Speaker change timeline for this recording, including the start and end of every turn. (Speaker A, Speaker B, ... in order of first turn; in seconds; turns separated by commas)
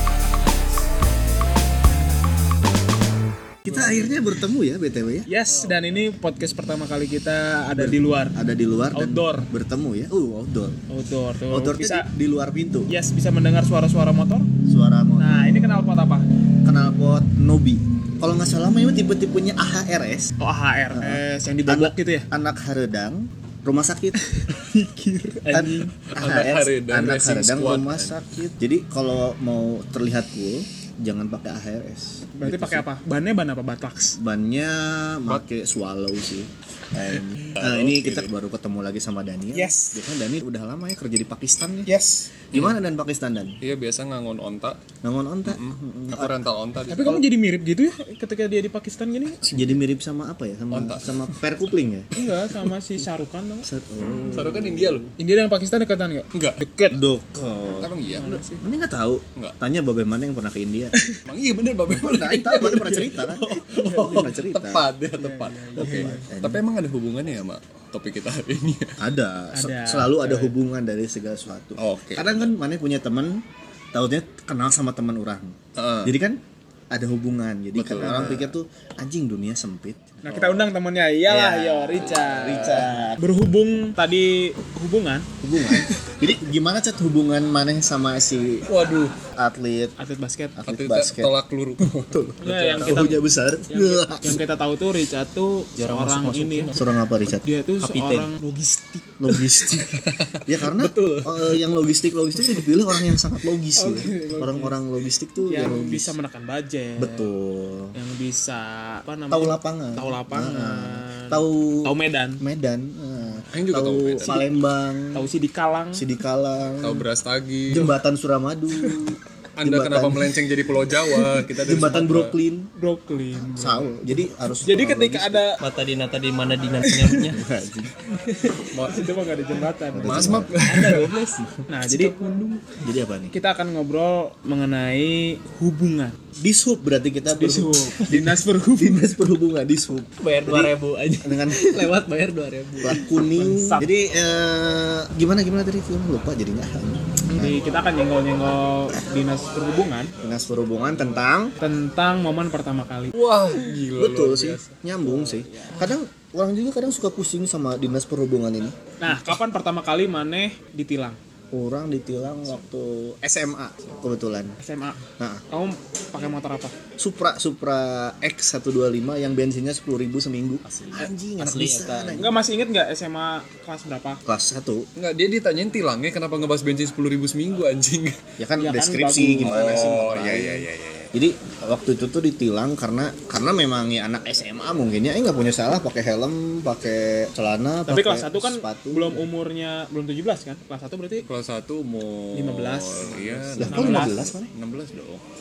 Speaker A: 3.6-5.3, Speaker B: 3.7-4.3, Speaker C: 5.3-8.4, Speaker B: 5.5-6.1, Speaker A: 7.7-10.8, Speaker C: 8.9-9.5, Speaker C: 10.9-12.1, Speaker A: 11.5-12.9, Speaker C: 12.9-14.5, Speaker A: 14.7-15.8, Speaker C: 15.2-16.2, Speaker A: 16.6-20.3, Speaker C: 20.4-22.3, Speaker A: 20.9-24.2, Speaker C: 24.2-26.0, Speaker A: 25.5-32.9, Speaker B: 26.2-28.2, Speaker C: 32.3-34.2, Speaker A: 34.1-41.9, Speaker B: 37.2-38.3, Speaker C: 39.5-40.0, Speaker C: 41.9-42.3, Speaker A: 42.5-43.6, Speaker B: 43.6-44.8, Speaker A: 45.0-46.3, Speaker B: 45.5-47.2, Speaker C: 46.9-49.4, Speaker B: 49.4-49.8, Speaker A: 49.4-52.1, Speaker B: 50.7-51.2, Speaker C: 52.1-53.7, Speaker A: 53.6-55.1, Speaker B: 54.3-55.1, Speaker C: 55.2-57.0, Speaker B: 56.3-56.6, Speaker A: 56.9-57.9, Speaker B: 57.8-58.4, Speaker C: 58.1-58.6, Speaker A: 58.6-60.9, Speaker B: 61.2-69.0, Speaker A: 61.9-64.9, Speaker C: 63.6-64.4, Speaker C: 65.2-66.3, Speaker A: 65.8-66.6, Speaker A: 69.0-73.4, Speaker C: 69.5-70.5, Speaker B: 71.8-72.5, Speaker A: 73.9-76.4, Speaker B: 75.8-76.1, Speaker A: 76.9-80.1, Speaker B: 77.8-78.5, Speaker C: 80.2-85.3, Speaker B: 80.3-80.7, Speaker A: 81.3-83.2, Speaker B: 81.9-82.8, Speaker A: 85.4-88.7, Speaker B: 88.7-89.1, Speaker A: 89.3-90.0, Speaker C: 90.0-90.6, Speaker A: 90.5-94.4, Speaker B: 90.6-93.2, Speaker C: 92.4-96.7, Speaker D: 95.8-96.9, Speaker A: 96.7-97.4, Speaker C: 97.3-99.2, Speaker D: 97.8-98.3, Speaker A: 99.2-106.2, Speaker B: 99.9-100.4, Speaker C: 100.8-101.2, Speaker C: 103.8-104.8, Speaker C: 105.5-107.3, Speaker A: 107.0-107.9, Speaker C: 107.9-112.4, Speaker A: 109.3-115.3, Speaker B: 113.5-114.4, Speaker C: 114.2-114.5, Speaker C: 115.1-116.0, Speaker A: 115.9-117.0, Speaker B: 116.8-117.9, Speaker A: 117.7-120.4, Speaker B: 119.6-122.3, Speaker A: 121.5-122.7, Speaker C: 122.7-124.0, Speaker A: 123.4-125.4, Speaker C: 124.6-125.6, Speaker D: 125.6-127.4, Speaker C: 126.9-127.3, Speaker A: 127.3-127.9, Speaker D: 128.0-129.0, Speaker B: 128.7-129.1, Speaker C: 128.9-132.1, Speaker A: 129.9-130.5, Speaker B: 130.0-131.1, Speaker D: 130.7-132.7, Speaker A: 132.8-133.3, Speaker C: 133.3-136.2, Speaker A: 136.3-142.0, Speaker C: 137.3-139.0, Speaker D: 140.2-143.1, Speaker A: 142.8-147.6, Speaker C: 143.3-143.9, Speaker C: 147.3-150.1, Speaker A: 150.2-151.5, Speaker C: 151.6-153.2, Speaker B: 153.1-154.8, Speaker A: 154.0-158.8, Speaker C: 155.0-155.8, Speaker C: 159.0-161.2, Speaker A: 161.5-164.6, Speaker C: 164.6-166.7, Speaker A: 165.2-165.4, Speaker A: 167.0-172.3, Speaker D: 170.6-172.3, Speaker C: 172.2-174.2, Speaker A: 174.2-174.9, Speaker B: 174.9-178.2, Speaker A: 178.4-189.2, Speaker C: 178.6-180.0, Speaker B: 179.4-181.1, Speaker C: 187.8-191.2, Speaker B: 191.2-195.2, Speaker C: 192.3-194.3, Speaker A: 193.6-194.5